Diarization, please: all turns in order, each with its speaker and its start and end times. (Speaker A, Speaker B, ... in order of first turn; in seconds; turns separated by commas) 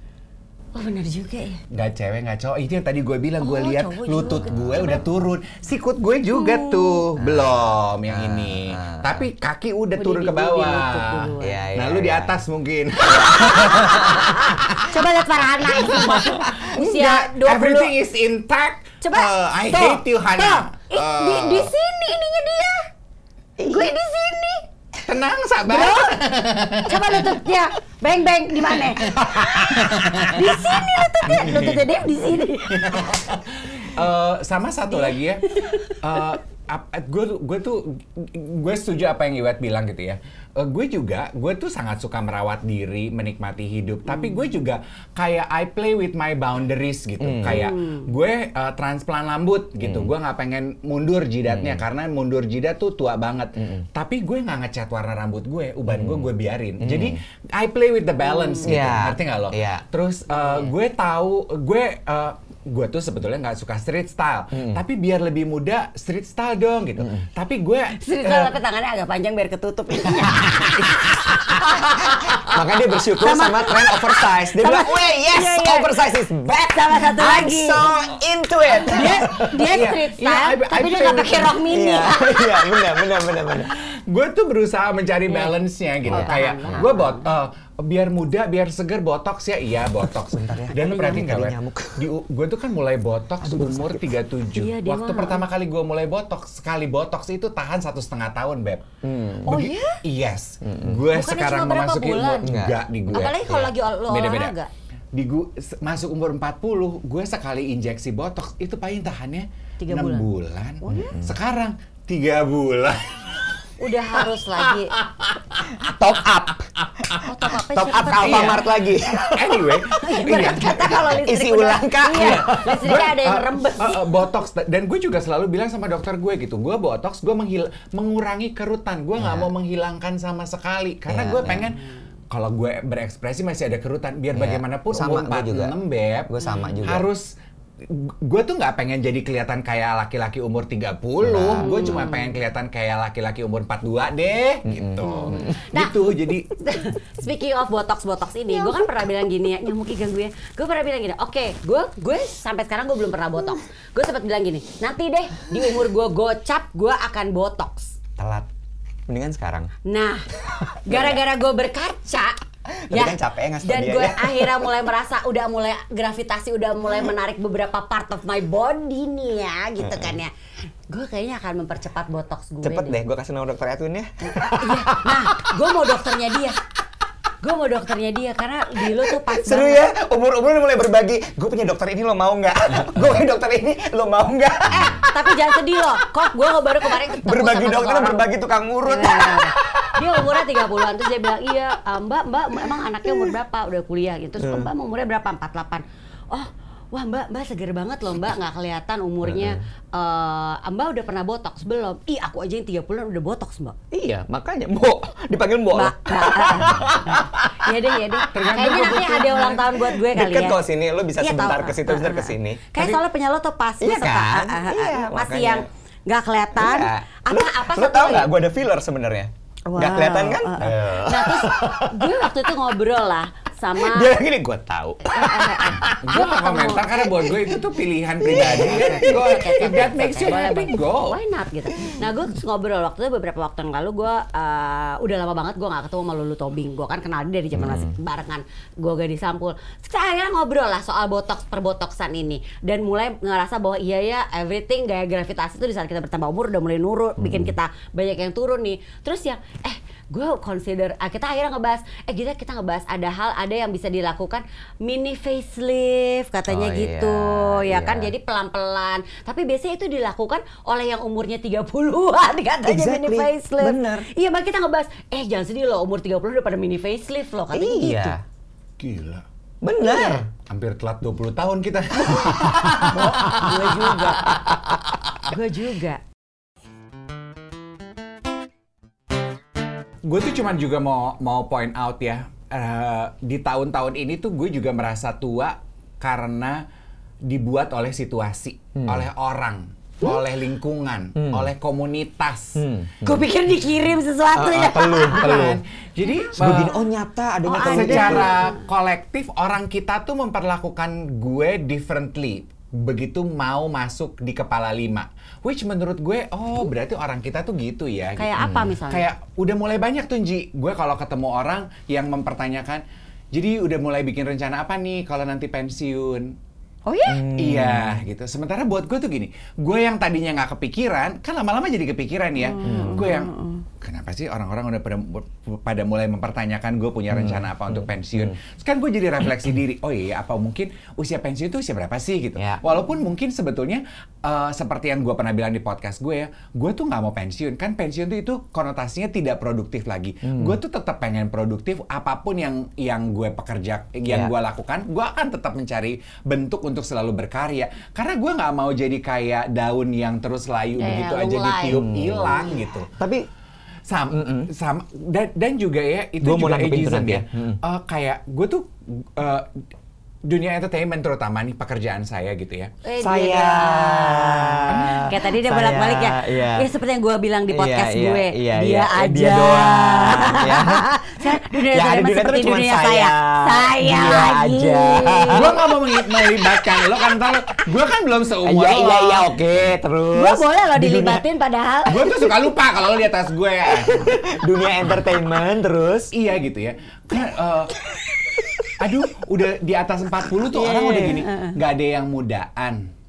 Speaker A: 0.7-1.6, Speaker B: 1.7-14.9, Speaker A: 3.4-5.0, Speaker A: 6.3-7.0, Speaker C: 7.2-9.3, Speaker A: 10.0-11.6, Speaker C: 11.4-12.4, Speaker A: 13.1-17.9, Speaker C: 13.6-14.3, Speaker B: 15.6-21.7, Speaker A: 19.0-22.9, Speaker C: 23.6-23.9, Speaker A: 23.7-24.7, Speaker B: 25.1-27.4, Speaker A: 25.7-26.1, Speaker A: 26.9-33.2, Speaker B: 29.0-31.9, Speaker B: 32.7-68.5, Speaker A: 34.9-36.3, Speaker C: 47.2-47.7, Speaker A: 47.5-48.1, Speaker C: 49.8-50.1, Speaker C: 51.5-51.8, Speaker C: 53.6-53.9, Speaker C: 55.9-57.2, Speaker A: 58.2-58.7, Speaker C: 58.6-59.8, Speaker C: 64.5-64.8, Speaker C: 67.0-67.3, Speaker A: 68.0-71.6, Speaker B: 70.3-72.6, Speaker C: 72.5-79.7, Speaker A: 73.0-75.9, Speaker A: 76.7-77.9, Speaker B: 78.8-81.7, Speaker A: 78.9-82.8, Speaker C: 81.7-83.7, Speaker B: 83.5-98.8, Speaker A: 85.3-85.5, Speaker C: 86.0-86.9, Speaker A: 86.1-87.2, Speaker C: 90.3-92.1, Speaker A: 90.8-91.2, Speaker C: 93.4-94.1, Speaker A: 94.5-95.5, Speaker C: 99.0-99.7, Speaker A: 99.5-100.0, Speaker B: 99.5-104.5, Speaker C: 100.6-101.0, Speaker A: 101.1-102.5, Speaker C: 102.4-102.8, Speaker A: 103.1-104.7, Speaker B: 105.1-116.0, Speaker A: 109.8-110.3, Speaker A: 110.8-111.2, Speaker C: 110.9-111.4, Speaker A: 113.8-115.0, Speaker C: 115.7-119.9, Speaker A: 117.2-118.6, Speaker B: 118.2-118.7, Speaker B: 119.3-121.2, Speaker A: 119.9-124.2, Speaker C: 121.0-123.2, Speaker B: 122.1-137.3, Speaker C: 129.2-129.5, Speaker C: 131.1-131.7, Speaker C: 134.3-135.7, Speaker C: 136.3-137.1, Speaker A: 136.4-136.8, Speaker B: 137.8-146.5, Speaker C: 141.2-142.1, Speaker A: 141.6-142.3, Speaker C: 144.7-145.5, Speaker A: 145.0-145.9, Speaker A: 146.5-158.0, Speaker C: 158.2-158.5, Speaker C: 159.1-159.7, Speaker A: 159.8-160.3, Speaker C: 160.5-161.2, Speaker A: 160.8-162.4, Speaker C: 162.7-164.7, Speaker A: 162.9-173.0, Speaker C: 169.8-170.2, Speaker C: 172.6-175.9, Speaker A: 174.3-176.6, Speaker A: 177.4-179.8, Speaker C: 178.8-185.2, Speaker A: 184.7-188.3, Speaker C: 186.9-190.9, Speaker A: 188.9-203.8, Speaker C: 193.0-193.3, Speaker C: 194.4-194.7, Speaker C: 199.2-199.6, Speaker C: 203.9-208.3, Speaker A: 205.7-210.6, Speaker B: 208.3-209.8, Speaker C: 209.9-212.7, Speaker A: 211.2-218.3, Speaker C: 213.8-215.7, Speaker C: 216.6-222.5, Speaker A: 219.7-224.1, Speaker C: 223.8-226.1, Speaker A: 225.1-226.9, Speaker B: 225.8-231.2, Speaker C: 227.2-227.6, Speaker C: 228.2-229.6, Speaker A: 228.4-268.1, Speaker C: 237.5-237.9, Speaker C: 247.2-247.6, Speaker C: 256.5-258.1, Speaker C: 262.6-264.1, Speaker C: 267.5-268.2, Speaker B: 268.8-269.2, Speaker C: 269.6-270.3, Speaker A: 269.8-270.2, Speaker B: 270.5-274.5, Speaker A: 272.1-274.4, Speaker C: 272.6-274.8, Speaker A: 275.2-276.0, Speaker B: 280.1-286.6, Speaker B: 287.2-292.6, Speaker C: 288.8-289.1, Speaker C: 291.2-291.5, Speaker C: 292.6-293.3, Speaker A: 293.0-295.4, Speaker C: 294.4-295.6, Speaker B: 295.1-296.7, Speaker A: 296.0-296.8, Speaker C: 296.4-298.3, Speaker A: 297.5-298.6, Speaker B: 297.6-308.4, Speaker A: 308.2-309.1, Speaker C: 308.4-308.8, Speaker B: 308.9-316.3, Speaker A: 316.9-317.2, Speaker C: 317.1-318.0, Speaker B: 317.4-352.9, Speaker A: 322.4-323.6, Speaker C: 322.6-323.1, Speaker C: 327.1-328.4, Speaker C: 340.2-340.6, Speaker C: 344.1-344.3, Speaker A: 350.8-351.8, Speaker C: 351.7-353.3, Speaker B: 353.9-359.6, Speaker C: 354.1-354.5, Speaker C: 356.2-357.6, Speaker B: 360.3-362.7, Speaker A: 362.8-375.5, Speaker C: 363.0-366.7, Speaker B: 364.7-365.0, Speaker C: 367.5-375.6, Speaker B: 375.3-379.4, Speaker C: 376.2-376.9, Speaker C: 378.4-381.2, Speaker A: 380.1-382.0, Speaker B: 381.9-384.1, Speaker C: 381.9-382.3, Speaker C: 383.7-386.1, Speaker B: 386.1-387.8, Speaker B: 388.8-392.9, Speaker A: 390.5-391.6